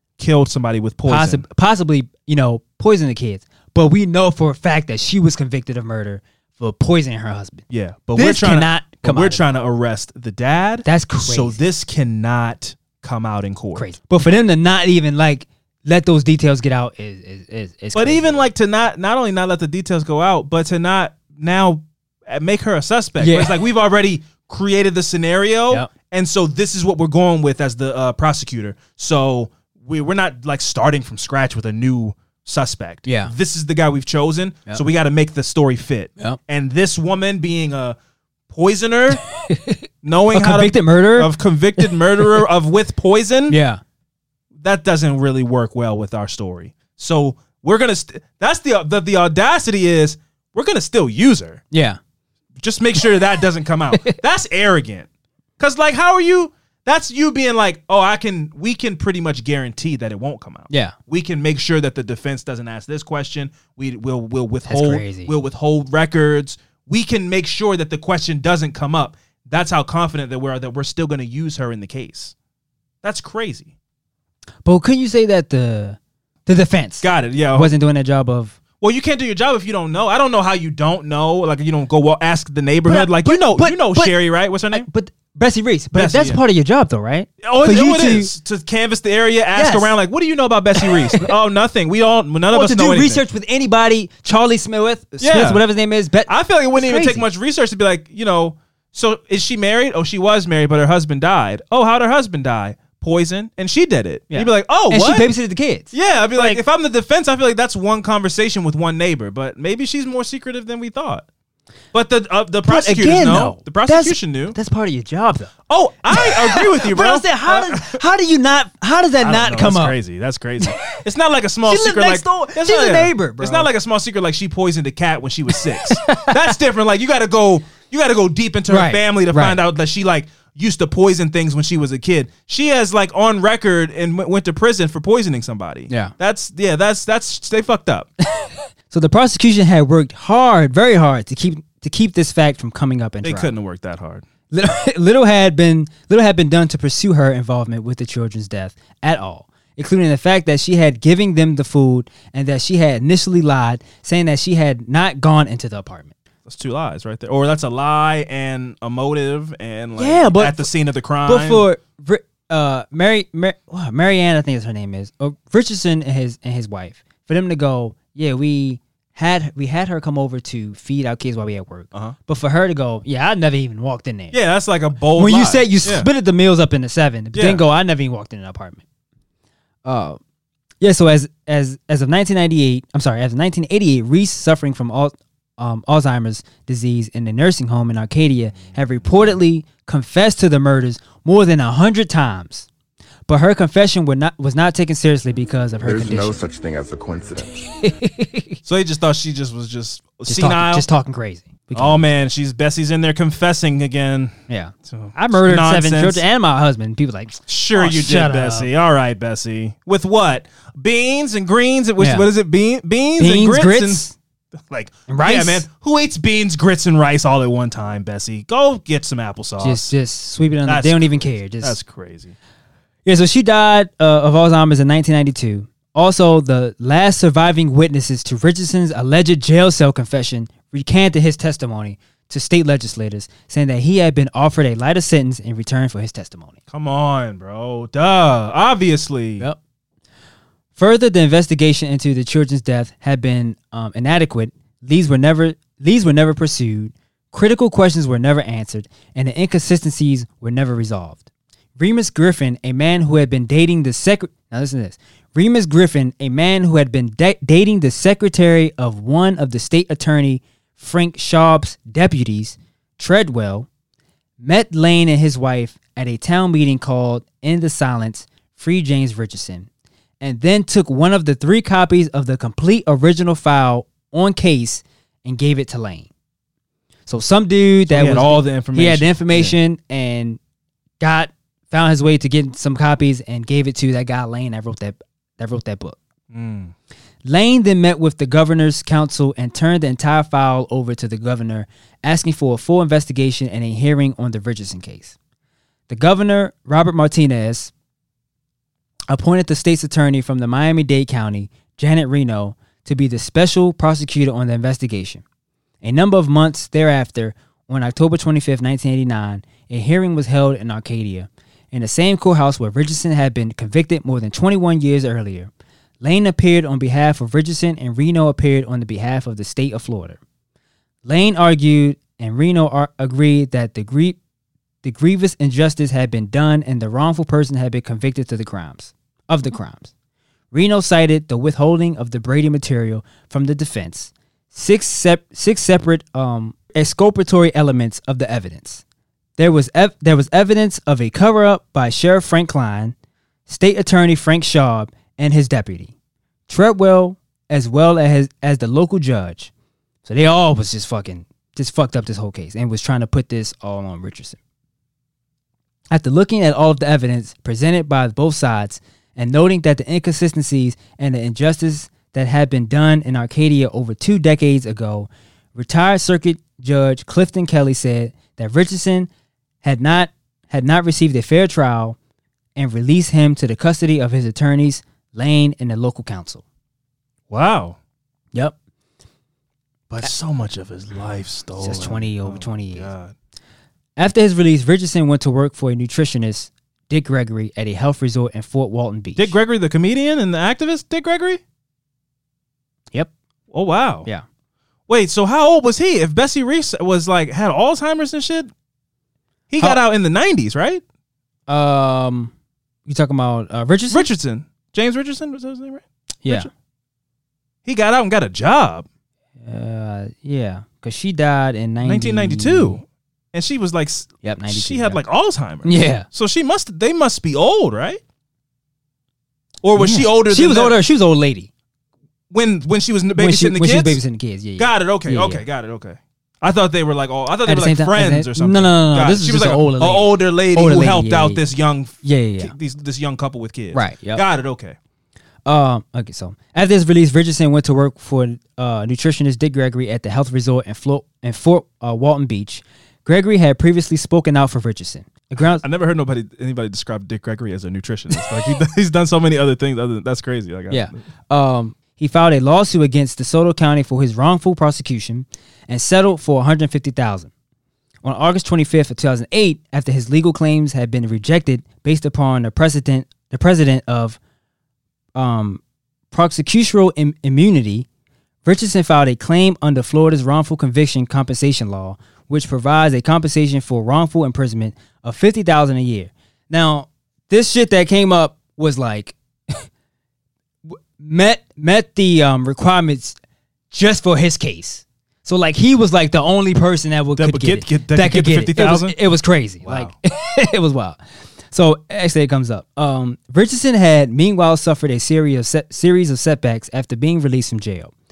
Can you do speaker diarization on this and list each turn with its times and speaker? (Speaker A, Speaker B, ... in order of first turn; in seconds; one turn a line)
Speaker A: 0.2-1.4
Speaker B: 1.1-7.6
Speaker A: 7.7-13.9
Speaker B: 8.2-9.5
Speaker B: 10.8-11.6
Speaker B: 13.7-18.4
Speaker A: 17.9-38.0
Speaker B: 23.2-23.5
Speaker B: 33.0-33.3
Speaker A: 38.5-39.2
Speaker B: 39.4-41.3
Speaker A: 40.0-43.6
Speaker B: 43.5-43.8
Speaker A: 44.6-51.6
Speaker B: 51.7-52.0
Speaker A: 52.6-55.1
Speaker A: 55.6-72.3
Speaker B: 60.7-60.9
Speaker B: 64.7-65.3
Speaker A: 73.0-73.7
Speaker B: 74.6-78.5
Speaker A: 77.0-77.7
Speaker A: 78.8-84.9
Speaker B: 82.8-84.1
Speaker B: 84.7-88.3
Speaker A: 85.9-86.4
Speaker A: 87.4-93.2
Speaker B: 89.5-89.9
Speaker B: 90.8-91.3
Speaker B: 92.5-97.2
Speaker A: 95.2-95.6
Speaker A: 96.3-105.3
Speaker B: 104.3-106.6
Speaker A: 105.9-111.2
Speaker A: 111.9-114.6
Speaker B: 112.7-115.5
Speaker A: 115.7-118.0
Speaker B: 116.1-119.9
Speaker A: 119.2-138.1
Speaker B: 120.6-120.9
Speaker B: 121.7-123.7
Speaker B: 125.5-126.5
Speaker B: 128.7-129.6
Speaker B: 138.3-143.5
Speaker A: 143.2-144.2
Speaker B: 144.5-156.1
Speaker A: 156.4-161.6
Speaker B: 160.0-160.7
Speaker B: 161.2-174.4
Speaker A: 174.3-176.1
Speaker B: 175.2-178.8
Speaker A: 177.3-177.6
Speaker B: 179.8-180.2
Speaker B: 180.8-192.7
Speaker A: 188.6-189.2
Speaker B: 193.3-196.4
Speaker C: 195.8-197.8
Speaker B: 197.8-198.6
Speaker A: 198.6-200.8
Speaker B: 200.3-202.0
Speaker A: 201.7-206.2
Speaker B: 204.5-208.7
Speaker A: 207.5-214.1
Speaker B: 212.0-212.3
Speaker B: 213.2-214.2
Speaker A: 214.7-219.9
Speaker B: 215.1-215.6
Speaker B: 219.6-221.8
Speaker A: 220.7-222.3
Speaker B: 223.0-236.5
Speaker A: 236.7-239.4
Speaker B: 240.8-251.2
Speaker B: 251.8-263.7
Speaker B: 264.4-269.7
Speaker B: 270.2-276.1
Speaker B: 277.1-280.4
Speaker A: 277.9-279.5
Speaker B: 281.0-286.0
Speaker A: 286.3-286.7
Speaker B: 287.2-295.1
Speaker B: 295.9-297.7
Speaker B: 299.1-305.2
Speaker B: 305.8-315.5
Speaker B: 316.0-320.2
Speaker B: 321.0-324.2
Speaker B: 324.8-329.9
Speaker B: 330.5-338.8
Speaker B: 339.4-342.9
Speaker B: 343.5-345.9
Speaker B: 346.5-349.5
Speaker B: 350.0-354.4
Speaker B: 355.9-369.1
Speaker B: 369.6-372.0
Speaker B: 372.6-376.4
Speaker A: 377.3-377.8
Speaker A: 379.9-383.1
Speaker B: 381.6-382.9
Speaker B: 384.0-389.3
Speaker A: 389.2-391.4
Speaker A: 393.5-394.1
Speaker A: 394.9-398.5
Speaker A: 399.5-400.8
Speaker B: 401.5-402.3
Speaker B: 402.9-404.1
Speaker A: 403.9-406.5
Speaker B: 406.2-406.5
Speaker A: 407.6-408.9
Speaker B: 409.4-412.8
Speaker A: 411.8-418.0
Speaker B: 414.2-415.0
Speaker B: 415.6-416.1
Speaker A: 419.6-420.8
Speaker B: 419.8-421.5
Speaker A: 422.3-424.0
Speaker B: 423.1-425.4
Speaker A: 424.6-434.8
Speaker B: 427.4-431.4
Speaker B: 432.0-432.5
Speaker B: 433.7-434.2
Speaker B: 435.4-445.6
Speaker A: 445.6-451.0
Speaker B: 450.7-457.3
Speaker B: 458.0-464.2
Speaker B: 465.1-467.9
Speaker B: 468.4-479.6
Speaker B: 480.7-483.2
Speaker B: 483.7-491.0
Speaker A: 487.2-488.9
Speaker A: 489.6-489.9
Speaker B: 491.5-497.9